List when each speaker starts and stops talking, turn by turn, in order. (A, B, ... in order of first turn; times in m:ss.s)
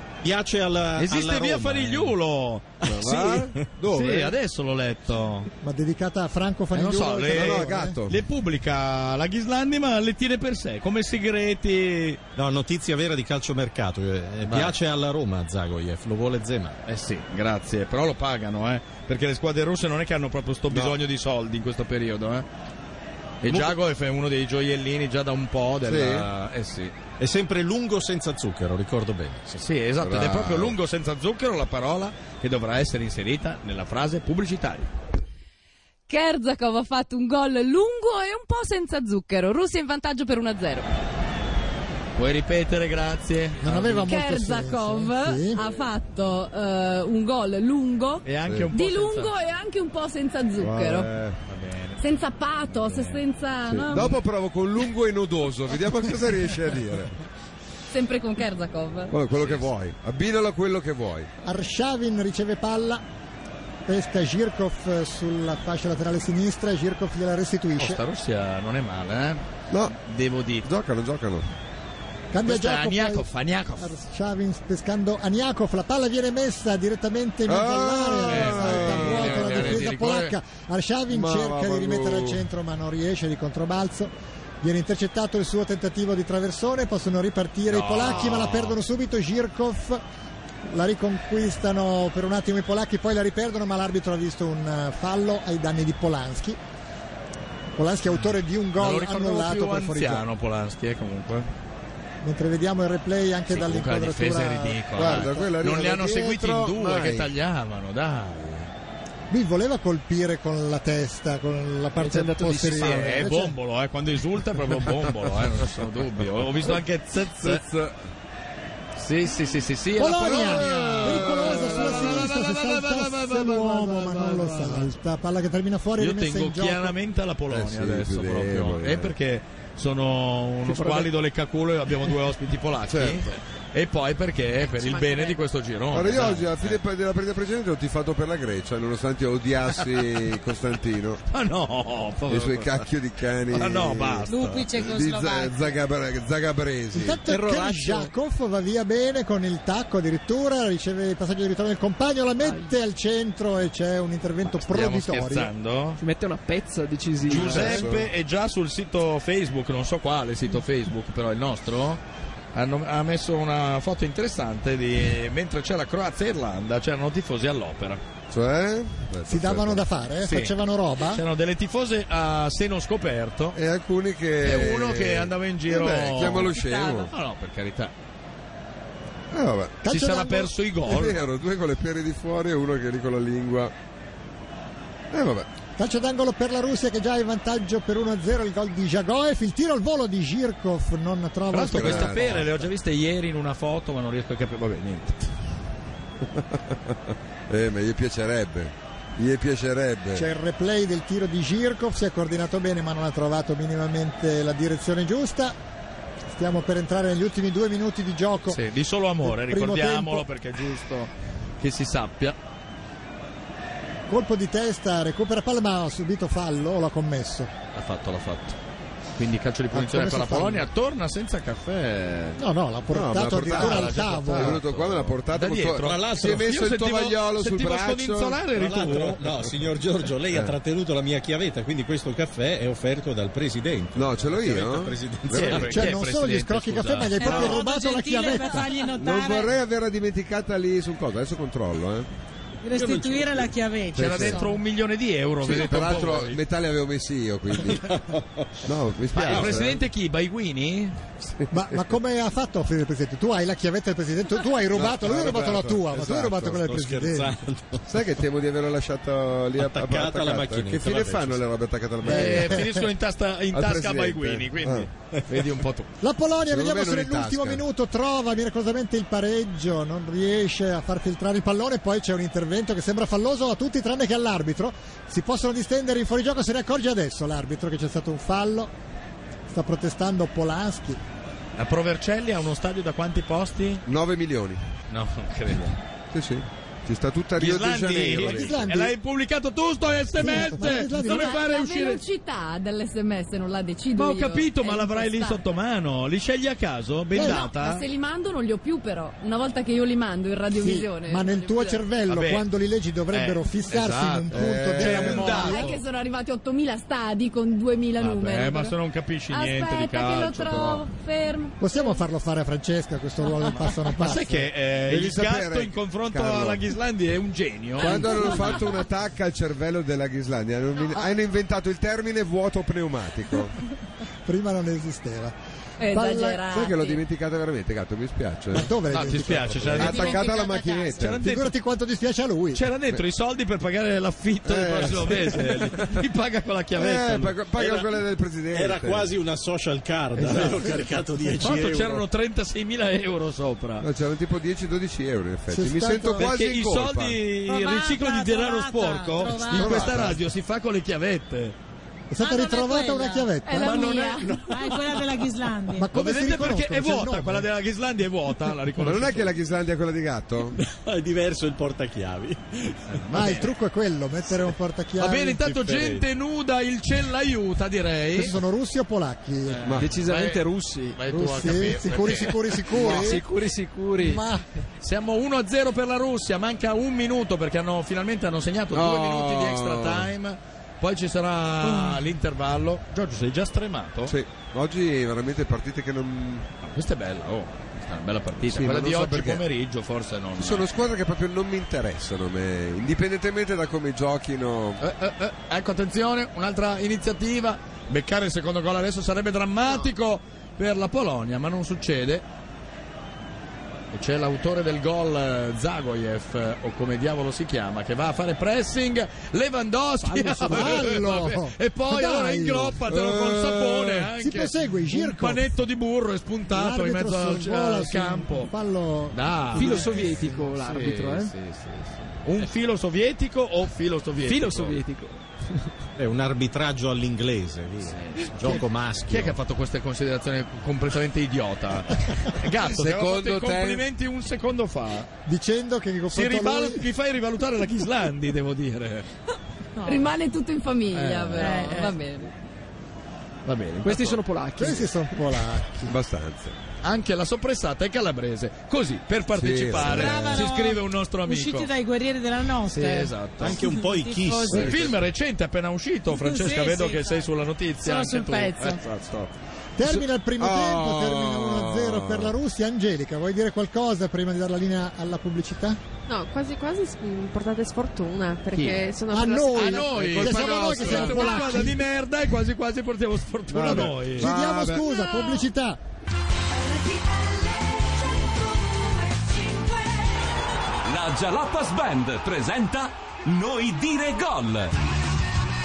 0:00.2-0:02.1 A
0:01.0-0:05.5 B
0:02.8-0:04.3 C
0:05.6-0:08.0 D
0:06.7-0:12.2 B
0:07.3-0:08.2 C
0:12.4-0:16.8 A
0:14.4-0:14.7 B
0:16.8-0:22.5 B
0:20.7-0:21.0 C
0:23.4-0:26.9 B
0:23.5-0:23.8 A
0:25.8-0:26.3 C
0:27.2-0:29.6 A
0:29.6-0:34.9 B
0:30.0-0:30.8 C
0:36.1-0:40.9 E
0:42.1-0:44.1 B
0:43.6-0:45.6 D
0:44.0-0:51.1 E
0:48.2-0:49.3 B
0:50.6-0:51.4 C
0:51.5-0:52.0 B
0:52.0-0:54.2 E
0:52.7-0:53.2 B
0:53.7-0:57.2 C
0:57.9-0:59.1 E
0:59.1-1:01.3 C
0:59.3-0:59.7 B
1:01.4-1:03.0 D
1:03.8-1:08.0 D
1:07.8-1:10.7 B
1:09.7-1:10.0 C
1:10.6-1:11.5 C
1:12.3-1:30.0 D
1:12.4-1:14.0 B
1:17.5-1:19.8 C
1:18.3-1:20.4 B
1:21.1-1:22.4 C
1:27.7-1:28.8 B
1:30.6-1:36.6 D
1:37.7-1:40.2 D
1:38.8-1:41.5 B
1:42.2-1:45.5 D
1:43.5-1:48.7 B
1:45.0-1:47.3 C
1:49.3-1:53.5 D
1:52.0-1:53.3 F
1:52.7-1:57.6 B
1:56.6-1:57.9 C
1:59.0-2:04.9 B
2:00.0-2:07.0 D
2:00.2-2:02.3 C
2:06.0-2:16.8 B
2:07.5-2:09.1 C
2:10.6-2:11.1 F
2:12.9-2:13.3 C
2:14.7-2:15.4 G
2:15.9-2:21.2 C
2:21.3-2:22.9 B
2:22.3-2:27.2 C
2:23.5-2:24.7 B
2:24.3-2:25.7 H
2:26.9-2:35.5 D
2:27.2-2:28.1 F
2:32.4-2:32.7 F
2:34.6-2:36.0 B
2:36.0-2:37.8 F
2:37.3-2:38.1 C
2:37.3-2:42.0 B
2:42.5-2:48.0 B
2:48.3-2:49.8 C
2:49.2-2:51.2 D
2:50.2-2:50.5 B
2:51.1-2:53.6 B
2:53.5-2:57.1 C
2:54.4-2:57.9 B
2:59.3-2:59.8 C
2:59.8-3:00.5 D
2:59.9-3:01.2 B
3:00.8-3:03.7 C
3:05.1-3:05.5 C
3:05.8-3:12.5 D
3:11.5-3:15.3 B
3:11.7-3:12.6 C
3:16.3-3:20.3 C
3:20.1-3:25.6 D
3:26.3-3:28.6 D
3:28.5-3:32.4 B
3:29.2-3:30.2 D
3:34.1-3:37.5 D
3:37.7-3:38.6 B
3:39.2-3:42.4 B
3:39.7-3:40.7 D
3:42.4-3:44.6 D
3:42.9-3:48.4 C
3:43.5-3:49.2 B
3:45.8-3:46.4 A
3:48.5-3:55.8 A
3:50.3-3:50.6 C
3:54.0-3:55.8 C
3:55.3-3:57.4 B
3:55.7-3:58.7 D
3:57.2-3:59.5 H
3:57.3-3:57.6 C
3:59.0-4:02.1 C
4:02.6-4:04.6 H
4:02.7-4:03.5 A
4:03.9-4:06.4 B
4:04.0-4:04.4 C
4:05.4-4:08.0 C
4:07.8-4:08.2 A
4:08.6-4:09.8 C
4:09.1-4:11.0 B
4:09.3-4:09.5 A
4:11.2-4:11.5 C
4:11.5-4:17.4 D
4:14.7-4:16.6 C
4:16.6-4:17.8 A
4:17.8-4:22.7 C
4:19.6-4:21.4 A
4:22.0-4:22.8 D
4:22.0-4:25.9 B
4:23.5-4:24.9 C
4:26.0-4:38.7 D
4:26.5-4:27.6 C
4:39.5-4:41.0 D
4:41.6-4:43.8 B
4:43.8-4:44.6 C
4:44.9-4:45.8 B
4:46.1-4:48.7 C
4:47.4-4:52.0 B
4:48.1-4:48.9 D
4:50.2-4:51.4 D
4:50.7-4:55.4 E
4:54.0-4:57.8 B
4:57.1-4:57.5 D
4:57.2-5:01.8 E
5:00.5-5:05.7 D
5:02.1-5:02.4 B
5:03.1-5:05.8 B
5:04.3-5:05.4 C
5:05.1-5:08.7 E
5:08.0-5:10.8 B
5:09.3-5:12.0 E
5:11.6-5:14.5 D
5:13.9-5:18.6 B
5:14.8-5:16.7 C
5:17.8-5:23.6 C
5:24.2-5:26.5 D
5:25.8-5:27.0 E
5:26.5-5:28.7 C
5:28.5-5:30.2 D
5:28.9-5:30.2 B
5:29.6-5:31.2 C
5:29.9-5:31.0 H
5:31.0-5:31.5 B
5:31.2-5:32.6 D
5:32.5-5:37.4 B
5:34.4-5:36.0 C
5:36.8-5:39.1 C
5:37.6-5:38.0 A
5:38.5-5:42.0 A
5:41.4-5:43.8 B
5:43.8-5:47.2 C
5:45.5-5:46.3 D
5:46.1-5:51.6 B
5:47.4-5:50.1 H
5:49.5-5:50.2 C
5:52.1-5:54.0 D
5:52.2-5:53.3 H
5:53.4-5:54.5 E
5:53.6-5:54.8 B
5:54.5-5:55.9 H
5:55.7-5:57.5 D
5:55.9-5:59.3 B
5:58.8-6:00.6 C
6:00.6-6:03.0 A
6:02.9-6:03.5 B
6:03.1-6:05.6 D
6:05.0-6:08.3 B
6:05.6-6:06.0 A
6:08.1-6:09.7 D
6:09.5-6:12.7 B
6:09.7-6:10.0 C
6:09.7-6:11.7 F
6:11.1-6:13.2 D
6:12.4-6:14.2 F
6:12.8-6:13.2 C
6:14.0-6:14.4 D
6:14.8-6:24.1 B
6:18.7-6:20.1 C
6:24.1-6:26.5 C
6:26.6-6:30.6 B
6:28.5-6:29.4 C
6:30.4-6:34.8 C
6:34.8-6:42.2 B
6:43.9-6:58.5 B
6:50.0-6:50.8 F
6:50.5-6:52.8 D
6:52.9-6:54.1 C
6:54.2-6:55.5 D
6:56.5-7:00.4 D
6:59.1-7:04.8 B
6:59.5-7:01.4 F
7:04.2-7:05.7 F
7:06.0-7:09.4 A
7:07.8-7:15.1 B
7:12.6-7:13.8 C
7:15.2-7:16.9 D
7:16.1-7:19.1 B
7:19.8-7:20.1 H
7:19.8-7:22.3 E
7:20.9-7:21.9 B
7:21.4-7:21.9 H
7:23.4-7:24.2 B
7:23.8-7:25.4 F
7:24.6-7:25.9 D
7:25.9-7:26.5 C
7:26.8-7:31.7 B
7:29.3-7:30.4 C
7:29.8-7:34.7 H
7:32.6-7:33.7 B
7:33.4-7:35.0 A
7:34.5-7:39.3 B
7:36.1-7:37.3 H
7:37.8-7:38.8 H
7:39.8-7:45.8 D
7:40.4-7:42.3 C
7:46.1-7:50.0 G
7:49.1-7:51.8 D
7:49.5-7:54.3 B
7:49.9-7:51.5 C
7:53.5-7:54.8 C
7:53.6-7:55.8 D
8:00.8-8:04.7 I